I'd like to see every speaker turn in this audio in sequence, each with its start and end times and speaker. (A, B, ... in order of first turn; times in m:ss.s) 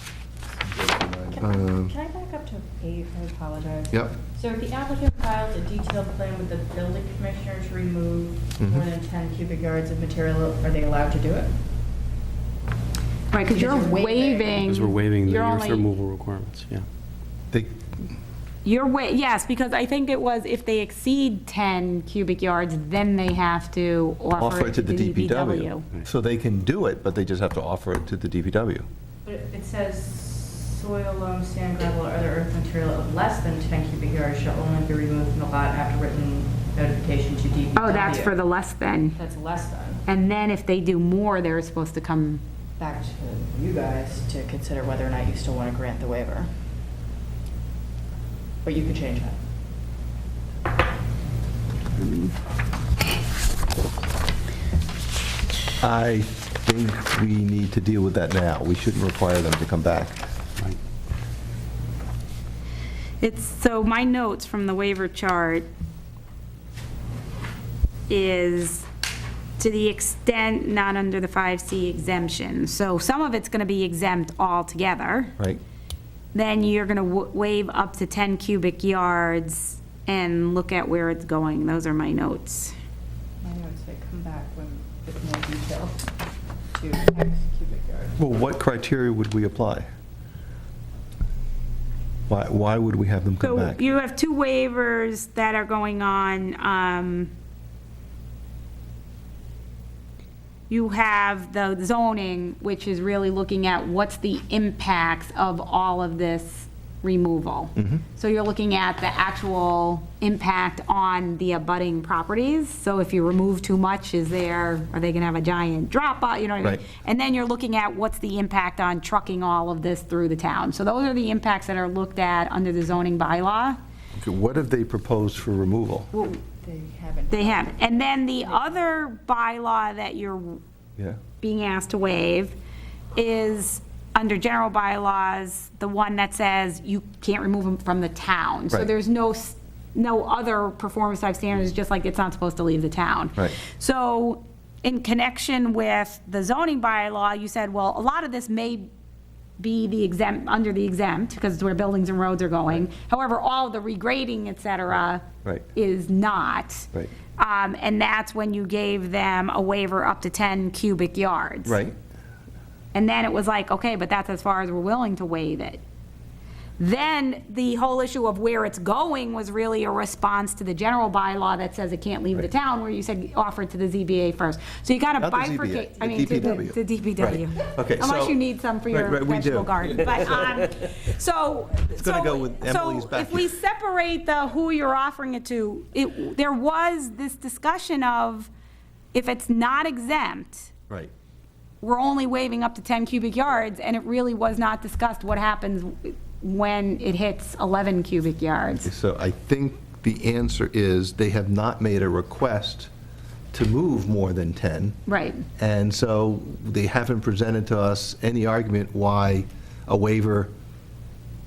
0:00.6-0:01.9 A
0:01.3-0:11.5 B
0:08.6-0:08.9 A
0:13.3-0:15.9 C
0:13.4-0:14.6 B
0:14.6-0:16.9 D
0:17.5-0:17.9 A
0:18.6-0:25.8 C
0:24.4-0:28.8 A
0:29.2-0:38.4 B
0:37.8-0:39.2 C
0:39.2-0:40.0 B
0:40.1-0:42.4 C
0:42.8-0:46.5 B
0:48.6-0:49.4 B
0:52.0-0:52.3 C
0:55.8-1:00.2 A
1:03.2-1:05.7 C
1:08.1-1:08.9 C
1:09.6-1:15.4 C
1:16.3-1:22.7 C
1:23.4-1:26.0 B
1:26.8-1:28.2 B
1:28.2-1:29.9 A
1:32.3-1:33.8 A
1:33.4-1:37.3 C
1:40.7-2:03.8 C
1:47.8-1:48.0 A
2:04.2-2:06.1 A
2:06.1-2:06.4 C
2:06.6-2:08.8 B
2:07.3-2:10.6 C
2:11.4-2:12.6 C
2:13.2-2:28.9 C
2:29.6-2:41.8 C
2:41.7-2:42.0 A
2:42.9-2:45.8 C
2:46.8-3:08.5 C
2:55.2-2:58.4 A
2:58.9-3:00.3 A
3:02.0-3:03.5 A
3:09.1-3:10.7 C
3:11.8-3:18.9 C
3:18.8-3:22.9 A
3:23.5-3:25.0 A
3:25.1-3:25.4 C
3:25.6-3:30.5 A